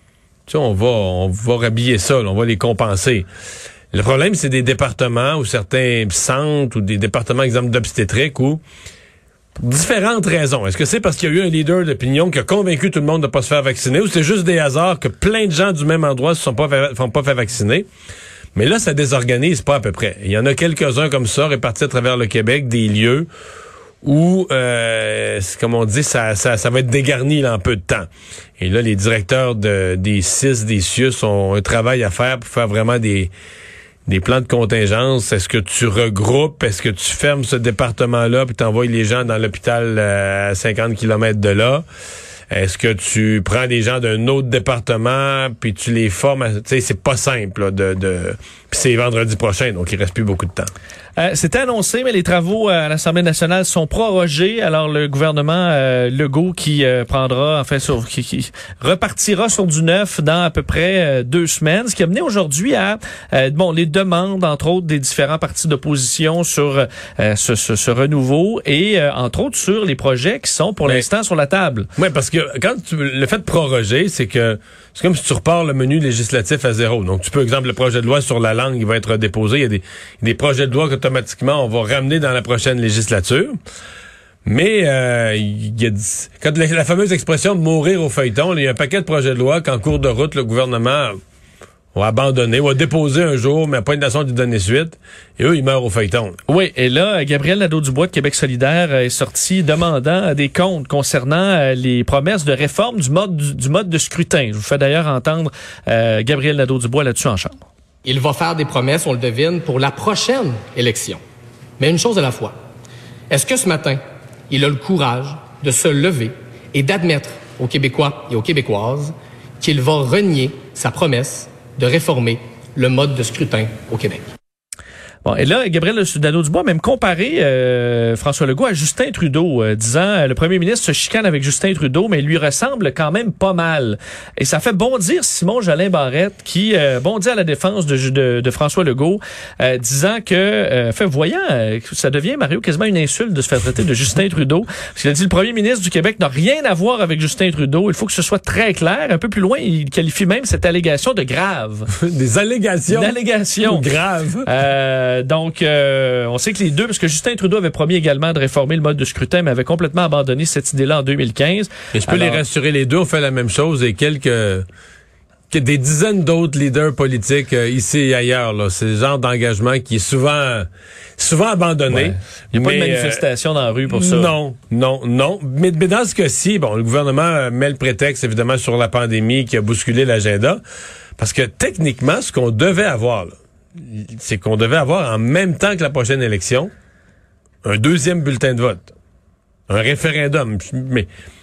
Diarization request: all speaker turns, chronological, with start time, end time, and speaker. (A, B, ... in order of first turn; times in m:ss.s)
0:00.5-0:03.3 A
0:03.9-0:08.6 A
0:09.6-0:17.9 A
0:18.5-0:23.3 A
0:24.0-0:33.3 A
0:34.1-0:41.8 A
0:42.5-0:50.7 A
0:51.2-1:11.9 B
1:12.0-1:23.6 A
1:24.4-1:31.2 A
1:31.9-1:36.4 A
1:36.5-1:47.6 B
1:48.0-1:51.2 C
1:51.8-1:52.5 C
1:53.3-2:04.2 C
2:05.2-2:31.9 B
2:31.9-2:34.5 A
2:32.9-2:33.8 B
2:34.5-2:42.4 B
2:41.9-2:44.6 A
2:45.5-2:53.2 A
2:51.9-2:54.3 B
2:53.9-3:00.6 A
3:01.2-3:06.7 A
3:07.6-3:08.9 A
3:09.7-3:11.1 A